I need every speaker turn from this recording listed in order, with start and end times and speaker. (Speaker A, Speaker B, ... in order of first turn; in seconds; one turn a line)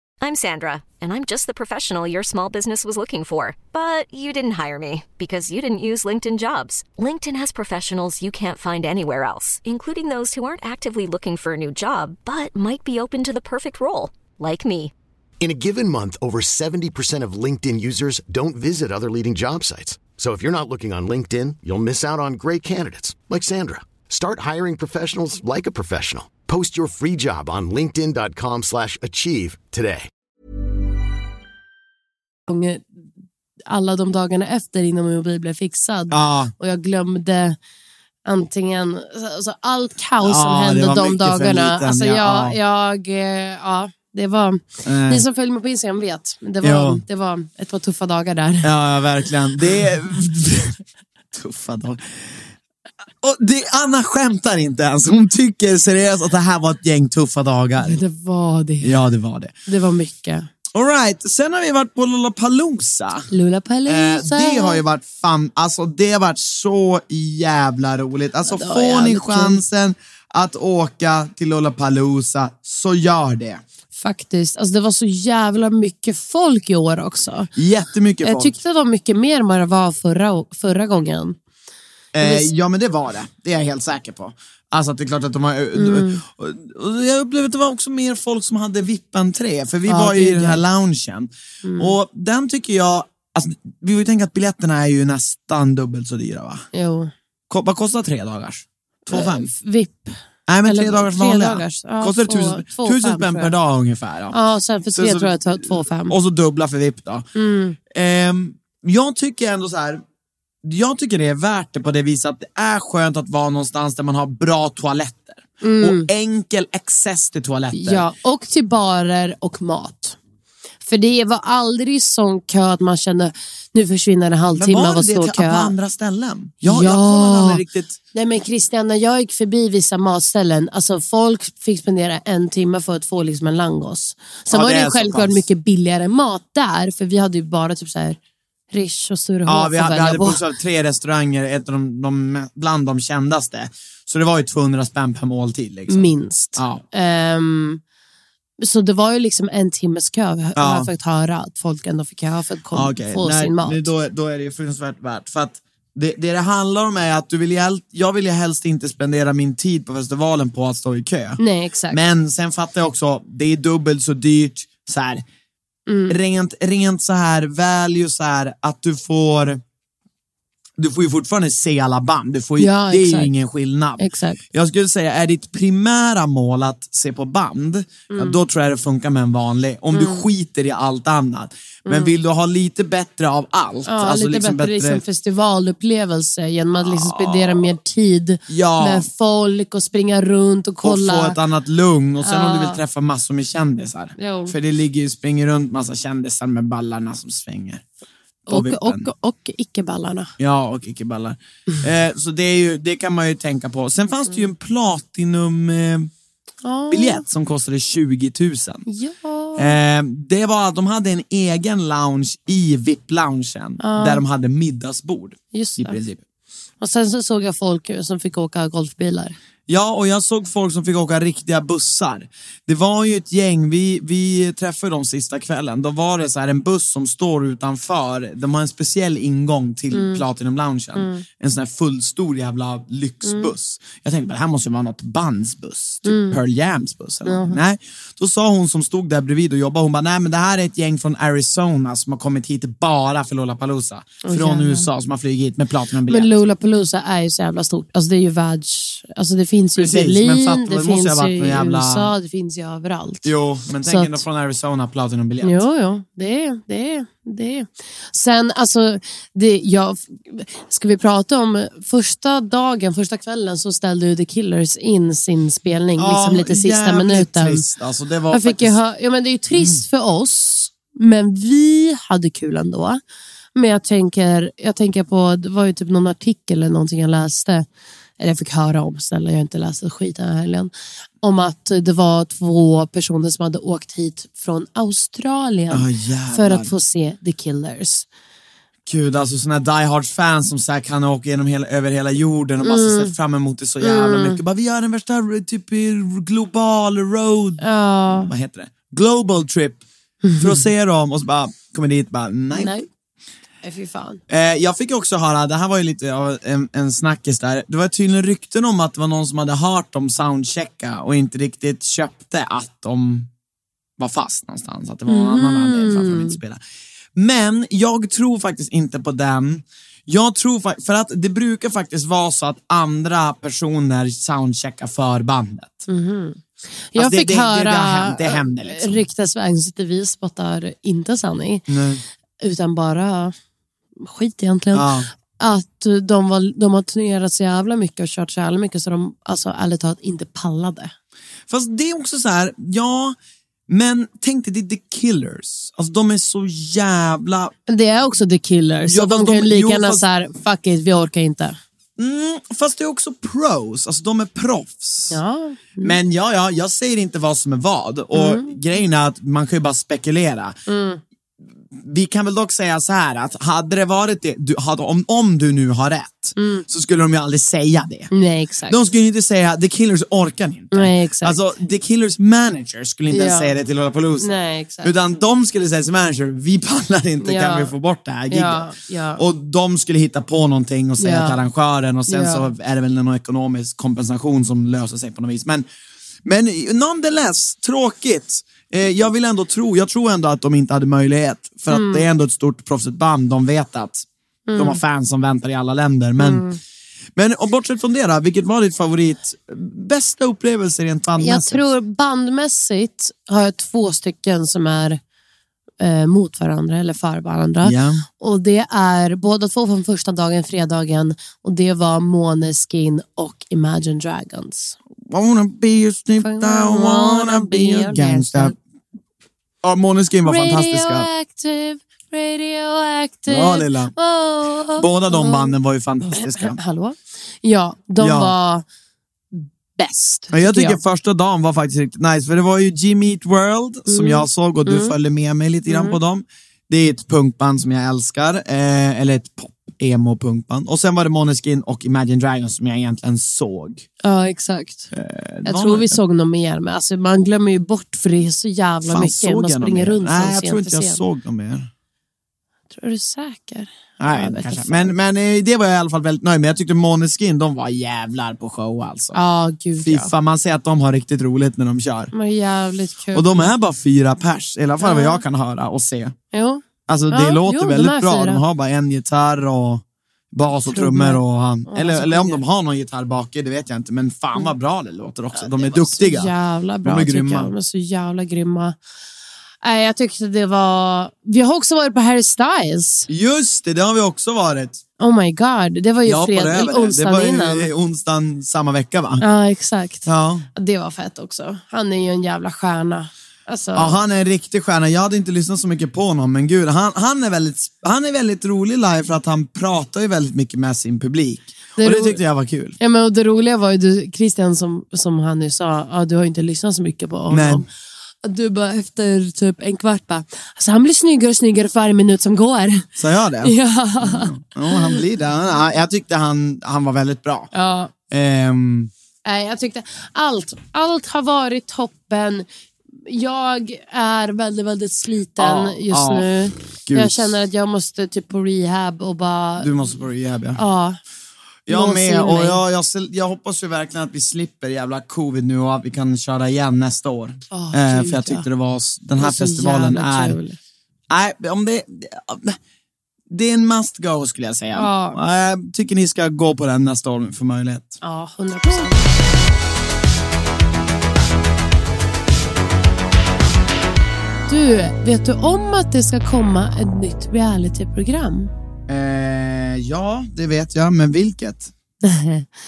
Speaker A: 0.2-14.9
Speaker B: 15.4-30.1
Speaker C: 32.5-32.9
Speaker C: 33.7-37.6
Speaker D: 36.1-36.5
Speaker C: 38.3-48.7
Speaker D: 40.2-42.6
Speaker D: 44.9-45.2
Speaker D: 46.6-47.0
Speaker D: 48.6-50.8
Speaker D: 51.3-52.5
Speaker D: 53.2-58.0
Speaker C: 57.8-59.0
Speaker D: 58.8-59.5
Speaker C: 59.7-60.5
Speaker D: 60.7-63.3
Speaker C: 63.3-64.8
Speaker D: 63.9-73.6
Speaker C: 68.5-69.6
Speaker C: 73.9-77.5
Speaker D: 77.5-78.6
Speaker C: 78.2-81.4
Speaker D: 82.1-96.7
Speaker C: 82.2-82.5
Speaker C: 85.7-86.2
Speaker C: 89.9-90.6
Speaker C: 91.6-92.0
Speaker C: 96.7-97.1
Speaker D: 97.5-99.5
Speaker C: 99.1-103.5
Speaker D: 100.5-104.4
Speaker C: 104.3-106.2
Speaker D: 105.0-107.3
Speaker C: 107.3-107.8
Speaker D: 107.9-110.0
Speaker D: 110.6-118.0
Speaker C: 115.6-116.1
Speaker C: 117.7-120.2
Speaker C: 120.8-125.7
Speaker D: 124.5-128.0
Speaker C: 126.6-127.6
Speaker C: 128.1-138.2
Speaker D: 134.5-135.4
Speaker C: 138.7-140.4
Speaker D: 139.5-146.8
Speaker C: 145.9-147.8
Speaker C: 148.6-153.9
Speaker D: 150.6-150.9
Speaker D: 152.7-165.2
Speaker C: 161.4-162.0
Speaker C: 165.9-166.2
Speaker D: 166.1-169.6
Speaker D: 170.8-185.0
Speaker C: 172.6-173.3
Speaker C: 174.0-174.4
Speaker C: 178.1-178.4
Speaker C: 179.9-180.2
Speaker C: 181.9-182.1
Speaker C: 183.9-191.4
Speaker D: 186.8-187.7
Speaker D: 188.5-189.1
Speaker D: 190.8-197.8
Speaker C: 192.2-192.8
Speaker C: 194.2-194.6
Speaker D: 198.5-199.1
Speaker C: 198.5-200.3
Speaker D: 200.4-206.1
Speaker C: 206.6-207.2
Speaker D: 206.9-208.8
Speaker C: 208.9-209.8
Speaker D: 209.6-216.2
Speaker C: 213.8-214.2
Speaker C: 215.5-216.0
Speaker C: 216.8-219.4
Speaker D: 219.7-246.3
Speaker C: 229.9-230.2
Speaker C: 230.9-231.2
Speaker C: 233.2-233.5
Speaker C: 236.1-236.4
Speaker C: 237.2-237.6
Speaker C: 244.2-244.9
Speaker C: 246.1-253.3
Speaker D: 249.8-252.1
Speaker D: 253.2-255.7
Speaker C: 253.8-254.2
Speaker C: 255.4-267.6
Speaker D: 266.0-268.8
Speaker C: 268.3-273.0
Speaker D: 269.5-269.8
Speaker C: 273.6-277.7
Speaker C: 278.2-280.7
Speaker C: 281.2-288.1
Speaker D: 285.7-286.7
Speaker D: 288.9-299.8
Speaker C: 292.6-293.1
Speaker C: 293.8-294.4
Speaker C: 297.6-298.3
Speaker C: 300.2-300.6
Speaker D: 300.4-302.8
Speaker C: 302.5-302.9
Speaker C: 303.6-304.2
Speaker D: 304.3-313.3
Speaker D: 314.0-316.6
Speaker C: 315.1-316.4
Speaker D: 317.1-325.9
Speaker C: 325.9-326.4
Speaker C: 326.9-331.7
Speaker D: 326.9-329.1
Speaker D: 331.7-332.0
Speaker C: 332.4-333.3
Speaker C: 334.0-340.9
Speaker D: 334.7-335.1
Speaker D: 341.5-343.2
Speaker D: 343.7-347.5
Speaker C: 347.7-351.6
Speaker D: 348.9-350.1
Speaker D: 352.0-355.2
Speaker C: 355.1-356.0
Speaker D: 355.8-360.6
Speaker C: 358.1-358.6
Speaker C: 360.7-361.0
Speaker D: 361.8-368.1
Speaker C: 366.4-366.7
Speaker C: 368.1-368.9
Speaker D: 368.7-385.7
Speaker C: 370.7-371.4
Speaker C: 373.1-373.5
Speaker C: 374.2-374.9
Speaker C: 377.2-377.7
Speaker C: 378.3-379.2
Speaker C: 381.0-381.4
Speaker C: 382.1-382.5
Speaker D: 386.2-396.5
Speaker C: 391.7-392.1
Speaker C: 394.5-394.8
Speaker C: 396.2-396.6
Speaker D: 397.2-401.7
Speaker C: 401.2-405.0
Speaker C: 405.8-414.8
Speaker D: 407.6-408.1
Speaker D: 415.1-418.6
Speaker C: 416.2-418.6
Speaker D: 419.6-421.1
Speaker C: 420.2-425.6
Speaker D: 423.3-423.9
Speaker D: 424.8-426.6
Speaker C: 426.1-428.6
Speaker D: 428.0-428.3
Speaker C: 429.3-430.8
Speaker D: 430.3-443.9
Speaker C: 433.9-434.9
Speaker C: 435.7-436.0
Speaker C: 444.0-444.9
Speaker D: 444.9-446.0
Speaker C: 445.4-451.0
Speaker D: 448.9-451.7
Speaker C: 452.7-454.9
Speaker D: 454.0-459.2
Speaker C: 459.1-460.1
Speaker D: 459.8-462.1
Speaker C: 462.1-463.5
Speaker D: 463.1-466.1
Speaker C: 464.8-465.2
Speaker C: 466.3-468.4
Speaker D: 466.9-476.3
Speaker C: 470.7-472.4
Speaker C: 475.4-478.8
Speaker D: 476.8-477.5
Speaker C: 479.6-483.1
Speaker D: 483.1-484.8
Speaker C: 485.0-487.7
Speaker D: 486.0-489.2
Speaker C: 489.2-494.0
Speaker D: 490.1-490.5
Speaker D: 493.8-502.8
Speaker C: 501.8-502.2
Speaker C: 502.8-507.7
Speaker D: 507.3-507.7
Speaker C: 508.2-512.9
Speaker D: 513.0-517.5
Speaker C: 513.4-515.0
Speaker C: 517.5-517.9
Speaker D: 518.1-518.9
Speaker C: 519.2-522.5
Speaker C: 523.1-529.9
Speaker D: 525.4-526.3
Speaker D: 526.8-527.4
Speaker D: 529.6-530.6
Speaker C: 530.6-531.0
Speaker D: 531.7-540.4
Speaker C: 531.7-532.6
Speaker C: 537.5-538.5
Speaker C: 539.2-540.6
Speaker D: 541.1-542.6
Speaker D: 543.3-548.0
Speaker C: 544.7-545.2
Speaker C: 548.0-549.1
Speaker C: 554.5-558.5
Speaker D: 558.9-561.7
Speaker C: 562.0-562.5